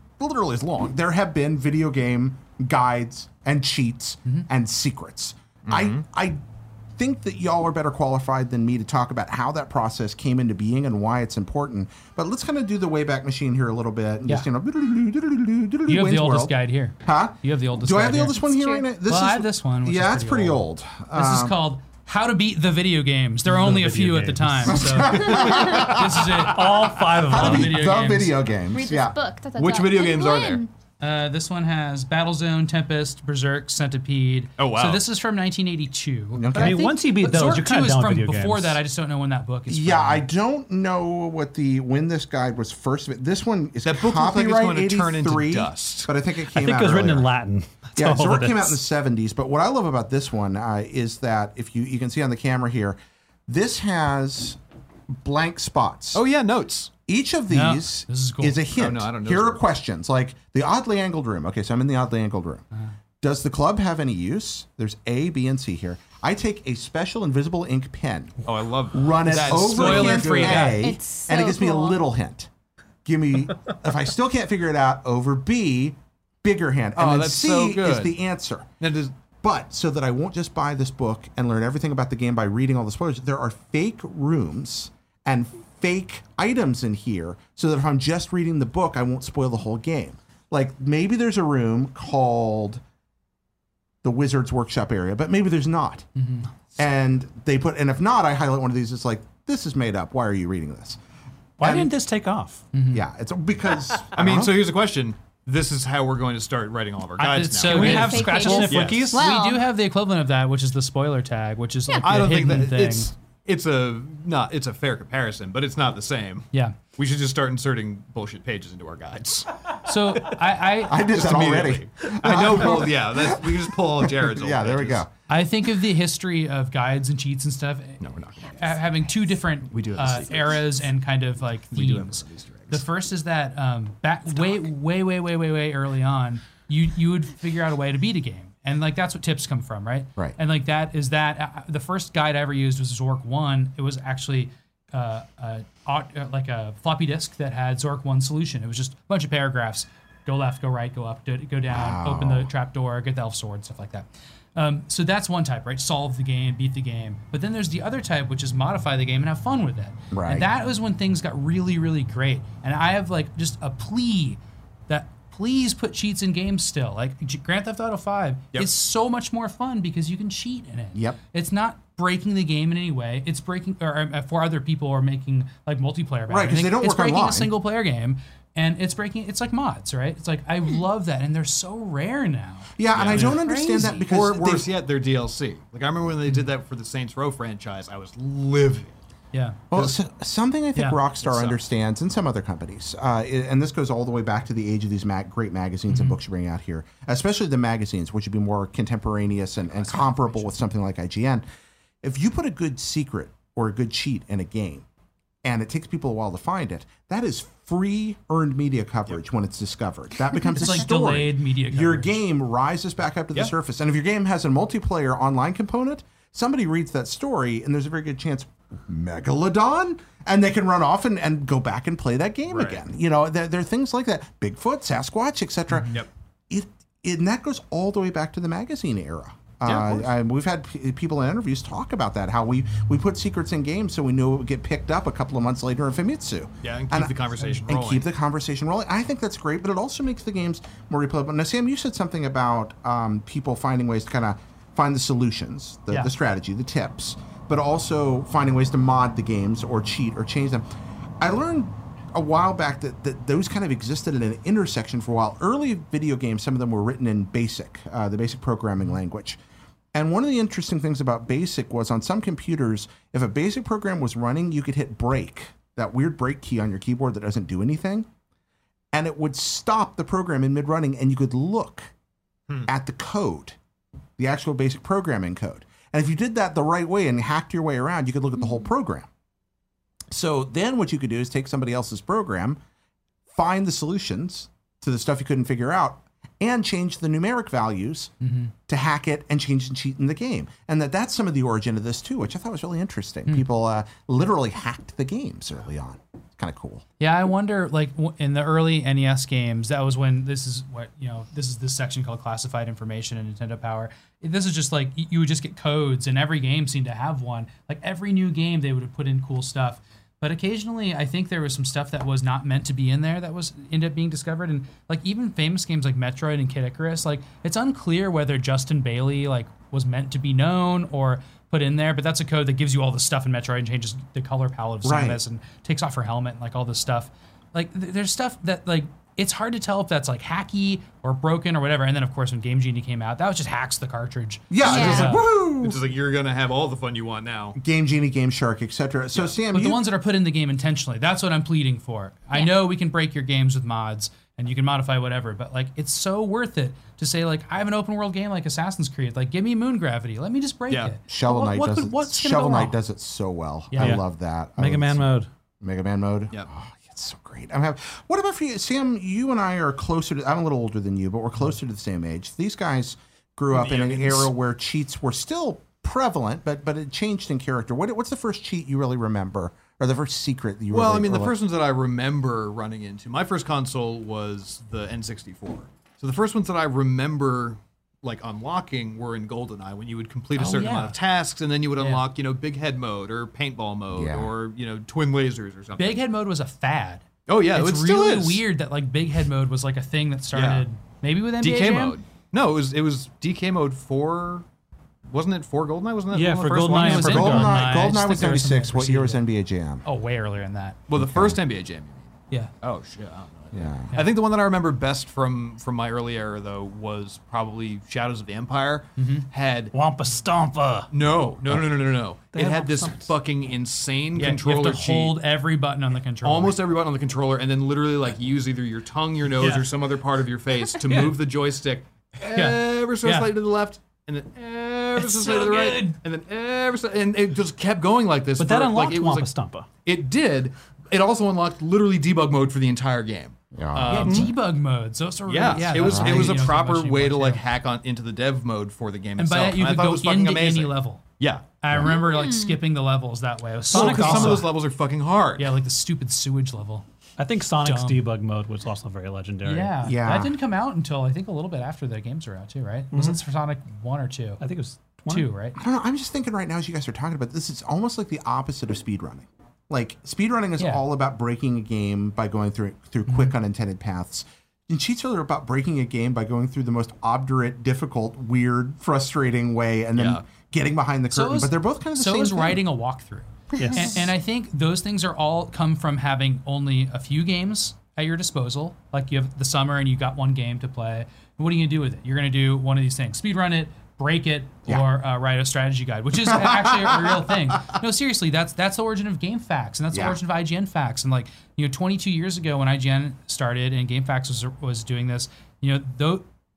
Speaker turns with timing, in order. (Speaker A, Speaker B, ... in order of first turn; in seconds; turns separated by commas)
Speaker A: 0.2-6.4, Speaker B: 5.7-6.0, Speaker A: 7.0-21.6, Speaker C: 15.9-18.4, Speaker D: 18.4-18.9, Speaker C: 19.1-28.4, Speaker E: 23.4-25.3, Speaker A: 24.7-26.1, Speaker B: 25.3-26.9, Speaker E: 26.4-27.8, Speaker A: 27.3-29.2, Speaker D: 28.7-30.7, Speaker B: 29.6-30.6, Speaker C: 31.0-40.3, Speaker B: 34.6-35.0, Speaker A: 36.3-36.9, Speaker E: 36.5-38.8, Speaker A: 39.7-47.3, Speaker B: 43.8-46.1, Speaker E: 46.5-48.8, Speaker A: 48.0-54.6, Speaker A: 55.1-56.2, Speaker B: 56.1-56.9, Speaker A: 57.1-62.7, Speaker C: 57.5-58.6, Speaker B: 58.8-59.7, Speaker A: 63.2-68.4, Speaker B: 68.5-70.8, Speaker A: 68.9-72.5, Speaker C: 69.3-70.8, Speaker D: 70.7-72.0, Speaker A: 73.0-78.7, Speaker B: 77.0-78.2, Speaker B: 78.8-79.1, Speaker A: 79.4-92.8, Speaker A: 94.0-96.0, Speaker C: 96.2-96.5, Speaker A: 96.8-101.0, Speaker E: 101.6-102.6, Speaker A: 101.6-101.9, Speaker C: 102.7-103.0, Speaker A: 102.9-104.7, Speaker B: 104.1-109.1, Speaker C: 107.2-113.1, Speaker E: 107.2-109.2, Speaker D: 107.8-109.7, Speaker B: 112.0-119.6, Speaker C: 119.8-121.2, Speaker A: 120.8-125.1, Speaker B: 121.1-125.0, Speaker C: 125.3-128.0, Speaker B: 128.0-129.1, Speaker C: 128.5-183.5, Speaker B: 129.7-130.9, Speaker B: 131.7-132.8, Speaker A: 151.7-152.5, Speaker A: 160.1-160.5, Speaker A: 170.9-171.2, Speaker A: 176.3-177.5, Speaker A: 182.8-184.7, Speaker B: 182.9-188.9, Speaker D: 183.5-183.9, Speaker C: 189.3-189.6, Speaker A: 189.7-201.4, Speaker B: 191.2-191.6, Speaker C: 195.9-196.2, Speaker A: 202.0-204.8, Speaker A: 205.4-250.7, Speaker C: 210.6-212.1, Speaker B: 222.5-222.8, Speaker B: 229.6-230.1, Speaker B: 236.6-238.1, Speaker C: 237.4-237.6, Speaker A: 251.2-259.4, Speaker A: 259.9-268.1, Speaker A: 268.9-271.9, Speaker A: 272.7-273.6, Speaker A: 274.2-279.1, Speaker A: 280.1-282.6, Speaker A: 283.3-288.1, Speaker C: 288.2-288.5, Speaker A: 288.7-296.8, Speaker C: 297.0-335.2, Speaker A: 324.8-325.2, Speaker A: 334.5-335.8, Speaker B: 334.6-337.6, Speaker D: 334.6-335.1, Speaker A: 337.6-339.9, Speaker C: 339.5-352.8, Speaker B: 350.7-350.9, Speaker A: 351.1-355.1, Speaker C: 353.7-354.0, Speaker E: 353.8-354.0, Speaker E: 354.6-355.3, Speaker A: 355.6-371.4, Speaker B: 363.5-364.3, Speaker B: 370.7-386.0, Speaker C: 380.4-381.0, Speaker C: 381.8-382.1, Speaker A: 383.9-384.3, Speaker C: 385.8-392.0, Speaker B: 387.3-388.4, Speaker B: 390.3-390.6, Speaker B: 391.4-394.4, Speaker B: 395.1-397.3, Speaker E: 396.1-397.7, Speaker C: 396.8-399.2, Speaker A: 397.1-399.8, Speaker C: 399.8-400.8, Speaker B: 400.9-409.7, Speaker A: 400.9-401.4, Speaker A: 403.5-403.9, Speaker C: 409.0-409.3, Speaker E: 409.7-410.9, Speaker B: 410.9-415.2, Speaker E: 412.3-413.1, Speaker C: 414.2-416.6, Speaker B: 416.2-429.3, Speaker C: 422.3-423.3, Speaker C: 425.0-426.0, Speaker E: 428.4-429.7, Speaker B: 429.9-434.3, Speaker A: 433.5-434.3, Speaker C: 433.9-437.4, Speaker B: 435.3-441.4, Speaker A: 435.7-436.5, Speaker C: 439.2-441.0, Speaker C: 441.6-444.5, Speaker D: 441.8-442.6, Speaker E: 443.7-444.5, Speaker B: 443.7-445.5, Speaker C: 445.4-446.9, Speaker E: 447.2-449.9, Speaker C: 447.6-448.0, Speaker C: 449.4-454.4, Speaker A: 449.8-450.4, Speaker E: 454.4-455.3, Speaker C: 455.1-455.6, Speaker A: 455.6-472.6, Speaker C: 460.6-460.8, Speaker C: 463.1-463.4, Speaker B: 469.9-470.2, Speaker C: 471.1-496.3, Speaker D: 473.6-473.9, Speaker E: 473.6-474.0, Speaker A: 486.2-487.2, Speaker A: 489.9-490.2